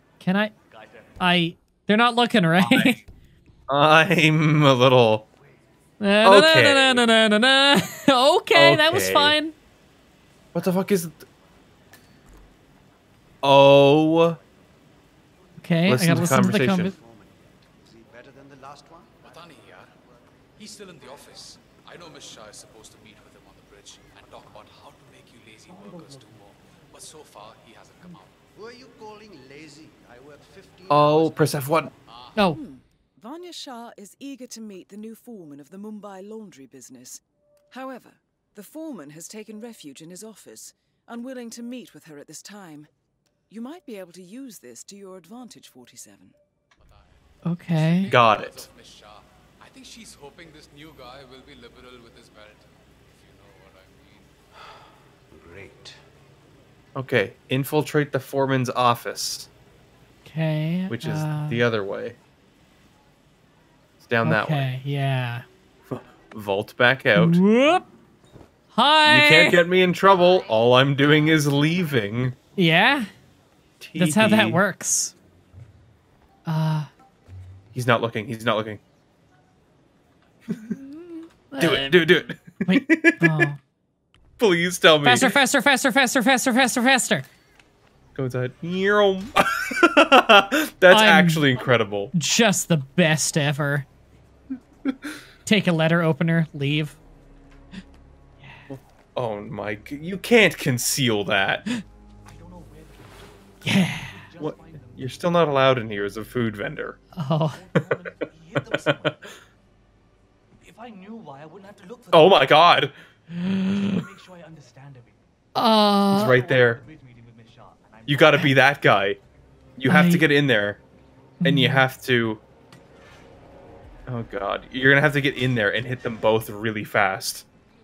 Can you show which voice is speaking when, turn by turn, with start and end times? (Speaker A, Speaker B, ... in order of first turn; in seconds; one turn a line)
Speaker A: 0.2-0.5
Speaker B: 0.7-1.2
Speaker A: 1.2-3.0
Speaker C: 2.6-3.0
Speaker C: 3.7-5.3
Speaker A: 6.0-9.6
Speaker C: 6.2-7.0
Speaker C: 8.5-9.4
Speaker C: 10.5-11.3
Speaker C: 13.4-14.4
Speaker A: 15.6-16.9
Speaker C: 15.8-16.9
Speaker D: 16.0-19.2
Speaker E: 19.2-19.9
Speaker E: 20.6-28.4
Speaker D: 25.7-26.5
Speaker D: 28.6-31.9
Speaker C: 30.9-31.9
Speaker E: 32.1-32.4
Speaker F: 32.5-42.9
Speaker F: 43.5-46.4
Speaker E: 46.8-47.2
Speaker A: 47.5-48.1
Speaker E: 47.7-54.3
Speaker C: 48.1-48.7
Speaker D: 55.3-56.0
Speaker C: 57.0-59.5
Speaker A: 60.2-61.7
Speaker C: 60.9-62.2
Speaker C: 64.0-64.7
Speaker A: 64.2-65.5
Speaker C: 65.9-67.4
Speaker A: 67.2-67.9
Speaker A: 68.7-69.6
Speaker C: 69.0-72.4
Speaker A: 72.6-73.1
Speaker C: 73.8-74.6
Speaker A: 74.0-75.1
Speaker A: 76.5-76.9
Speaker C: 77.7-78.8
Speaker A: 80.5-82.0
Speaker C: 81.6-83.5
Speaker A: 82.7-83.6
Speaker C: 84.4-85.3
Speaker A: 85.0-87.3
Speaker C: 88.2-92.1
Speaker A: 90.9-91.5
Speaker A: 92.1-93.9
Speaker A: 95.5-97.0
Speaker C: 98.7-101.7
Speaker B: 102.3-105.4
Speaker A: 103.6-104.2
Speaker C: 104.4-107.0
Speaker A: 107.2-107.6
Speaker B: 107.5-109.4
Speaker C: 108.6-109.2
Speaker B: 110.6-112.6
Speaker C: 112.1-113.0
Speaker A: 113.4-114.0
Speaker B: 113.4-115.2
Speaker A: 115.6-116.4
Speaker B: 116.1-118.6
Speaker C: 116.1-116.8
Speaker C: 118.1-119.2
Speaker C: 119.8-120.8
Speaker A: 119.9-120.3
Speaker A: 121.4-121.8
Speaker C: 121.4-122.4
Speaker C: 124.1-127.5